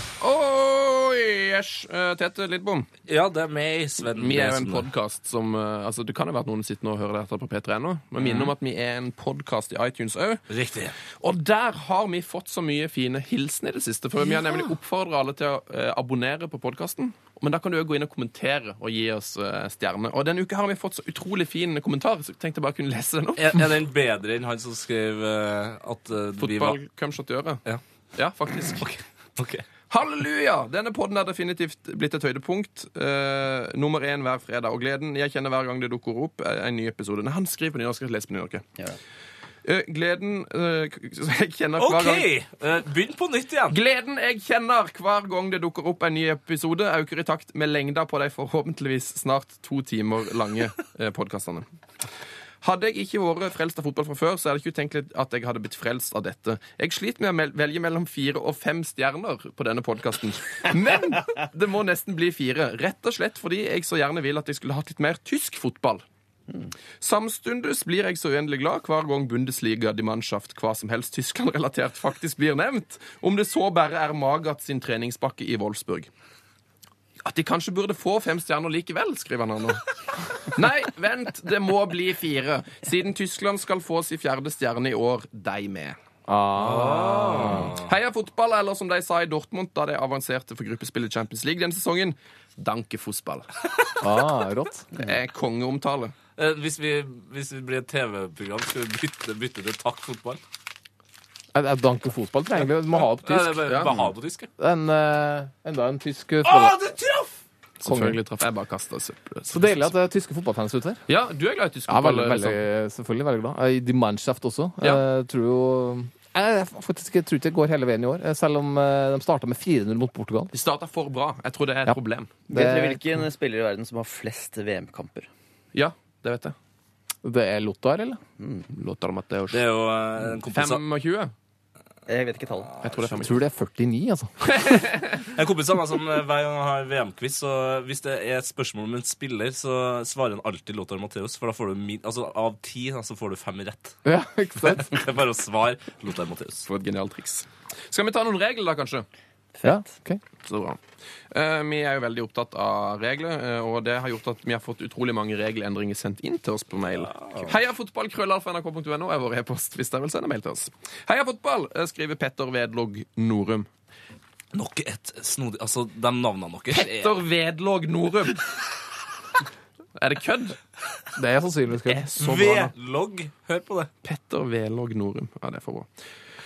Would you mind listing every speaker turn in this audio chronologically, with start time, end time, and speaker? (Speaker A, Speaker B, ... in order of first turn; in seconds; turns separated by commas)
Speaker A: 0.2-2.9, Speaker B: 3.1-4.9, Speaker A: 4.0-10.4, Speaker B: 10.5-10.9, Speaker A: 11.2-23.6, Speaker B: 23.4-26.8, Speaker A: 26.4-27.6, Speaker A: 28.2-28.9, Speaker B: 28.7-29.7, Speaker A: 29.9-38.7, Speaker A: 39.6-42.3, Speaker B: 41.8-43.8, Speaker A: 43.7-51.7, Speaker A: 52.6-66.0, Speaker A: 67.0-76.1, Speaker A: 77.2-86.0, Speaker C: 86.3-87.7, Speaker B: 86.6-87.9, Speaker A: 86.8-93.5, Speaker C: 94.0-94.9, Speaker A: 94.9-96.1, Speaker B: 96.4-100.4, Speaker C: 101.5-103.7, Speaker B: 103.2-104.5, Speaker A: 103.7-104.0, Speaker C: 104.6-106.8, Speaker B: 106.4-107.4, Speaker A: 107.8-109.9, Speaker C: 107.8-108.2, Speaker C: 109.5-111.0, Speaker A: 111.1-112.6, Speaker C: 111.9-120.5, Speaker A: 120.5-122.4, Speaker C: 122.5-123.0, Speaker D: 122.5-125.3, Speaker A: 125.7-126.5, Speaker C: 127.2-128.2, Speaker D: 128.4-128.7, Speaker A: 128.7-129.7, Speaker B: 129.5-130.8, Speaker A: 130.5-131.3, Speaker D: 132.1-132.8, Speaker A: 132.8-133.4, Speaker B: 132.8-133.2, Speaker C: 133.2-134.3, Speaker A: 134.5-135.3, Speaker B: 135.3-144.0, Speaker C: 144.1-145.0, Speaker B: 144.6-146.7, Speaker A: 146.7-149.1, Speaker D: 149.6-149.9, Speaker C: 149.6-150.2, Speaker A: 150.4-163.7, Speaker B: 156.9-157.6, Speaker B: 164.5-167.2, Speaker A: 166.7-168.4, Speaker A: 170.0-170.6, Speaker C: 171.2-172.1, Speaker A: 171.9-172.7, Speaker B: 172.2-173.9, Speaker A: 174.0-175.9